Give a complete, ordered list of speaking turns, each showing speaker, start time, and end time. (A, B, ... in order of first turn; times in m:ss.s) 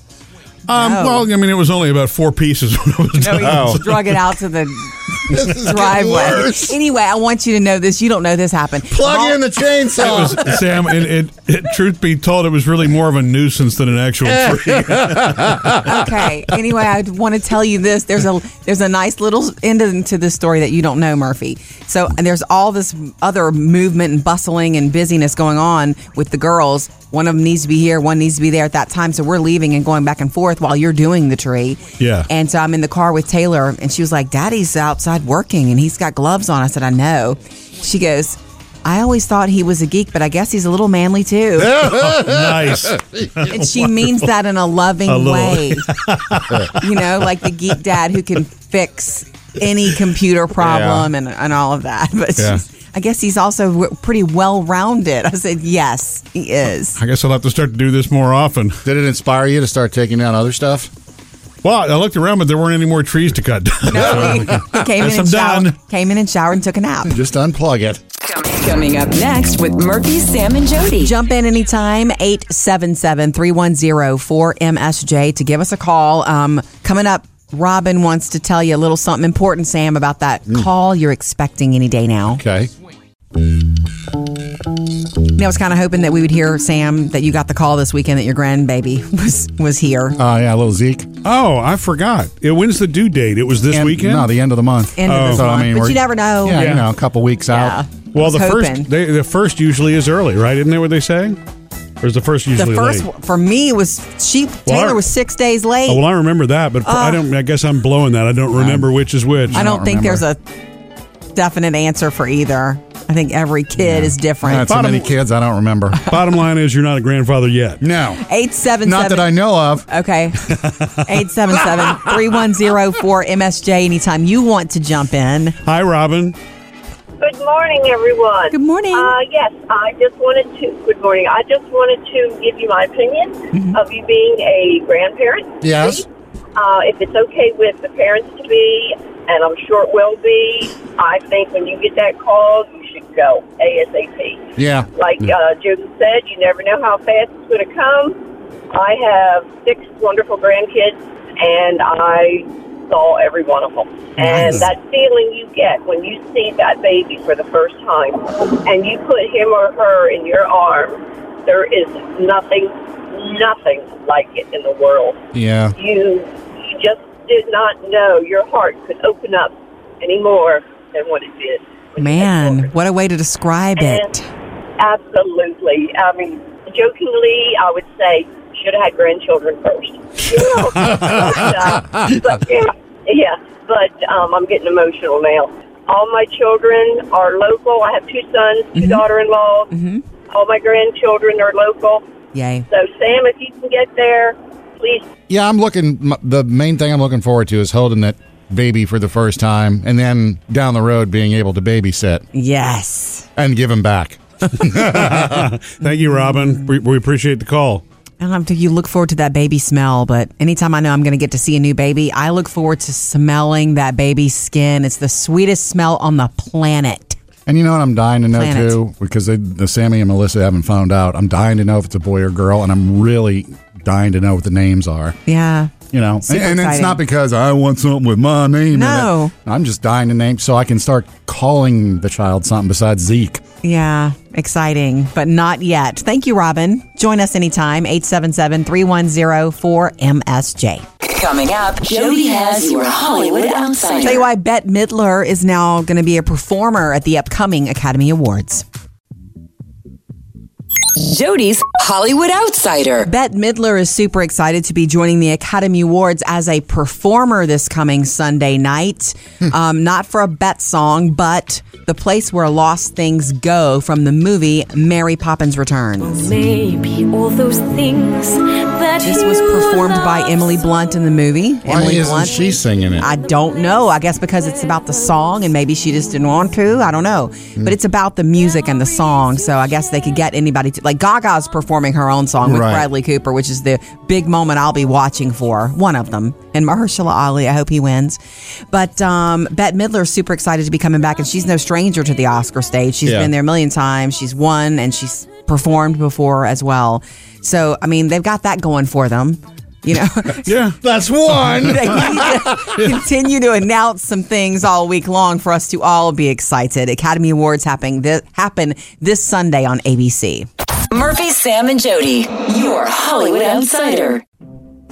0:00.7-0:04.3 A
0:00.7-0:01.3 B
0:03.2-0:09.4 B
0:03.4-0:03.8 C
0:05.3-0:06.8 C
0:08.9-0:10.7 C
0:10.0-0:15.6 A
0:14.4-0:15.8 C
0:15.8-0:41.9 B
0:32.0-0:32.3 A
0:41.7-0:43.2 C
0:41.8-0:44.2 A
0:43.4-0:45.9 B
0:45.1-0:47.1 A
0:46.8-0:57.0 B
0:50.6-0:51.1 C
0:57.0-0:58.8 A
0:58.8-1:00.9 C
1:01.6-1:05.8 A
1:03.9-1:07.1 B
1:04.2-1:04.5 C
1:07.1-1:08.0 C
1:08.2-1:11.1 D
1:11.0-1:22.4 B
1:22.3-1:22.7 C
1:25.4-1:30.2 B
1:30.2-1:31.1 C
1:31.2-1:34.3 A
1:33.7-1:37.8 C
1:35.0-1:36.7 B
1:35.1-1:35.5 A
1:36.5-1:36.9 A
1:37.5-1:38.9 B
1:38.1-1:41.4 A
1:42.0-1:43.1 A
1:42.6-1:46.0 B
1:44.7-1:45.1 A
1:45.9-1:49.6 A
1:46.8-1:47.2 B
1:48.5-1:48.9 C
1:49.5-1:50.2 C
1:49.5-1:50.4 B
1:51.4-1:54.9 B
1:53.8-1:56.1 C
1:54.7-1:55.1 A
1:56.0-1:57.8 A
1:57.8-1:58.2 C
1:58.2-1:59.4 B
1:58.8-1:59.9 C
1:59.9-2:05.6 B
2:00.5-2:01.0 A
2:05.6-2:06.4 A
2:07.2-2:28.2 E
2:08.5-2:09.2 B
2:13.5-2:13.8 B
2:15.6-2:16.0 C
2:24.6-2:24.9 C
2:28.7-2:45.2 E
2:34.2-2:34.6 C
2:45.3-2:45.8 C
2:45.8-2:52.7 E
2:52.0-2:54.3 B
2:53.8-2:54.1 E
2:54.8-3:09.7 E
3:08.8-3:09.0 B
3:09.7-3:10.0 B
3:10.3-3:12.0 E
3:12.3-3:12.7 B
3:12.7-3:15.1 E
3:15.3-3:22.2 C
3:22.3-3:23.3 B
3:23.4-3:25.5 C
3:24.9-3:27.8 A
3:28.2-3:37.2 B
3:37.5-3:45.2 C
3:38.3-3:38.8 B
3:45.3-3:45.7 B
3:45.9-3:53.4 C
3:46.3-3:47.0 B
3:48.7-3:49.3 B
3:53.6-4:00.8 B
4:01.0-4:04.2 D
4:04.0-4:08.6 B
4:11.0-4:13.1 D
4:13.0-4:26.3 B
4:26.0-4:30.6 F
4:29.0-4:32.5 B
4:31.6-4:33.1 C
4:33.0-4:48.2 B
4:42.4-4:42.9 C
4:48.7-5:00.6 B
4:53.0-4:53.3 C
5:00.5-5:00.8 A
5:00.8-5:02.9 C
5:01.6-5:10.5 B
5:10.9-5:14.2 D